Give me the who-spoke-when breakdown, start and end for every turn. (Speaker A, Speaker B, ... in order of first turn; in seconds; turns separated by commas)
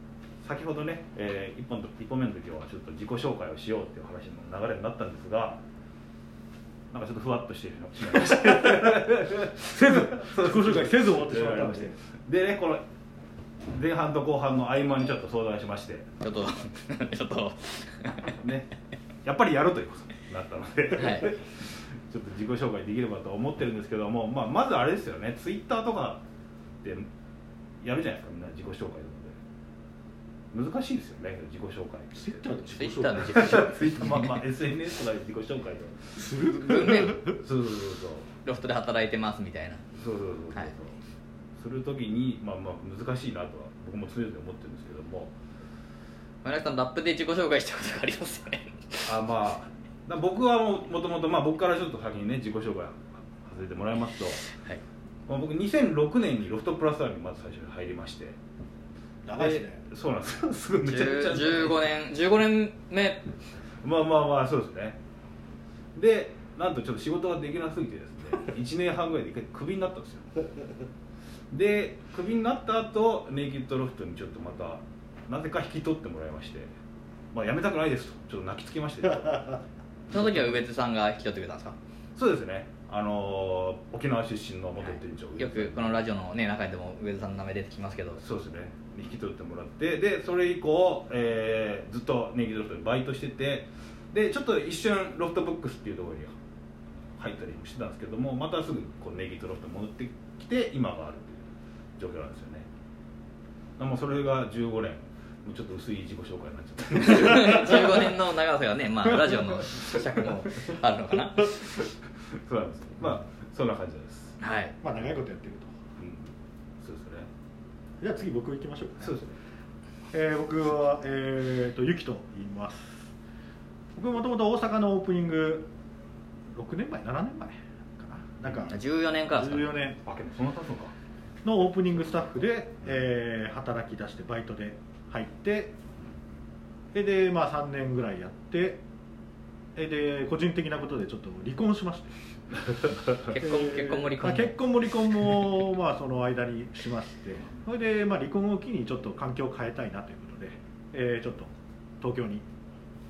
Speaker A: 0.4-5.6, Speaker A: 6.9-12.8, Speaker B: 9.8-12.0, Speaker A: 13.7-16.1, Speaker C: 16.2-18.3, Speaker A: 18.4-18.7, Speaker A: 19.2-26.2, Speaker C: 20.9-21.3, Speaker A: 26.8-27.1, Speaker A: 27.8-29.4, Speaker A: 30.5-32.6, Speaker B: 32.1-34.1, Speaker C: 32.7-34.3, Speaker A: 33.2-38.3, Speaker B: 36.2-37.4, Speaker C: 36.5-37.2, Speaker C: 38.4-39.8, Speaker A: 39.9-41.0, Speaker A: 41.6-45.3, Speaker C: 46.4-49.2, Speaker A: 49.0-54.5, Speaker A: 55.3-58.4, Speaker B: 59.2-59.8, Speaker A: 59.4-61.9, Speaker C: 60.8-63.3, Speaker A: 63.8-65.0, Speaker A: 65.9-70.3, Speaker A: 71.5-76.7, Speaker A: 77.3-79.6, Speaker C: 80.1-81.8, Speaker A: 80.1-80.6, Speaker A: 82.2-86.0, Speaker C: 84.8-88.2, Speaker A: 88.2-96.3, Speaker A: 97.1-102.7, Speaker A: 103.8-108.1, Speaker C: 107.0-111.6, Speaker A: 111.4-114.4, Speaker C: 114.4-114.7, Speaker B: 114.8-115.7, Speaker A: 116.0-117.3, Speaker B: 118.0-119.1, Speaker A: 119.0-119.3, Speaker B: 120.1-123.1, Speaker B: 123.9-125.7, Speaker B: 126.5-128.8, Speaker A: 128.4-128.8, Speaker C: 128.7-129.8, Speaker B: 129.3-130.0, Speaker A: 130.0-130.9, Speaker B: 131.4-135.7, Speaker B: 136.9-138.8, Speaker B: 139.8-142.1, Speaker A: 142.7-143.3, Speaker C: 143.2-144.6, Speaker B: 143.4-152.4